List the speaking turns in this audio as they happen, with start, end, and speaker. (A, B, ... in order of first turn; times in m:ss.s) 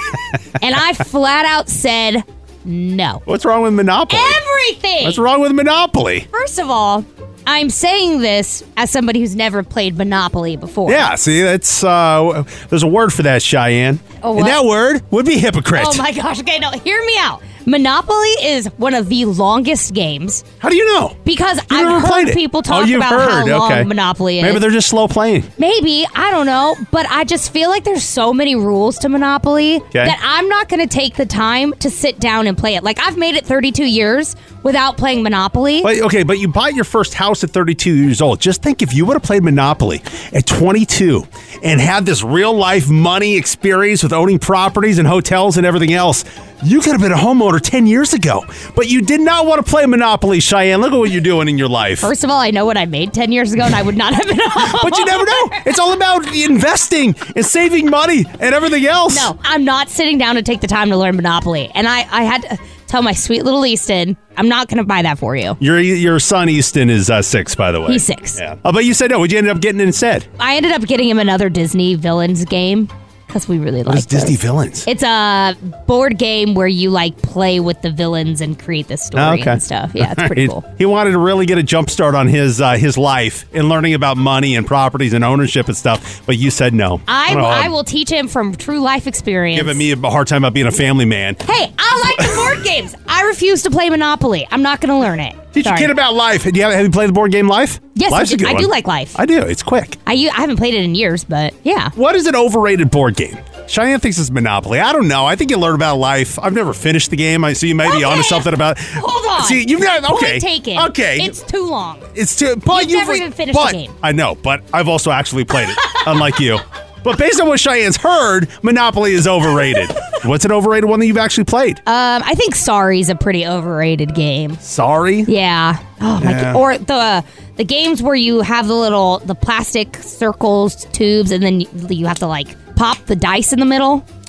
0:00.6-0:03.2 A
0:03.2-0:04.4 B
0:04.1-0:05.2 A
0:05.0-0:06.3 B
0:06.3-0:11.2 A
0:10.8-0:16.0 B
0:14.2-0:14.6 A
0:15.7-0:20.4 A
0:20.6-0:21.2 B
0:21.2-0:24.6 A
0:21.7-0:25.5 B
0:25.6-0:35.9 A
0:35.8-0:52.1 B
0:52.0-0:55.6 A
0:54.6-0:59.3 B
0:59.1-1:05.6 A
1:05.6-1:10.3 B
1:07.9-1:08.4 A
1:10.4-1:20.6 A
1:13.9-1:14.9 B
1:19.1-1:27.8 B
1:27.1-1:29.8 A
1:29.5-1:31.4 B
1:31.4-1:35.9 A
1:35.5-1:40.0 B
1:37.9-1:39.2 A
1:40.0-1:41.9 A
1:41.9-1:51.4 B
1:47.8-1:52.1 A
1:52.1-2:01.8 B
1:52.7-1:53.9 A
2:01.8-2:04.6 A
2:04.6-2:05.3 B
2:05.3-2:14.0 A
2:06.2-2:06.6 B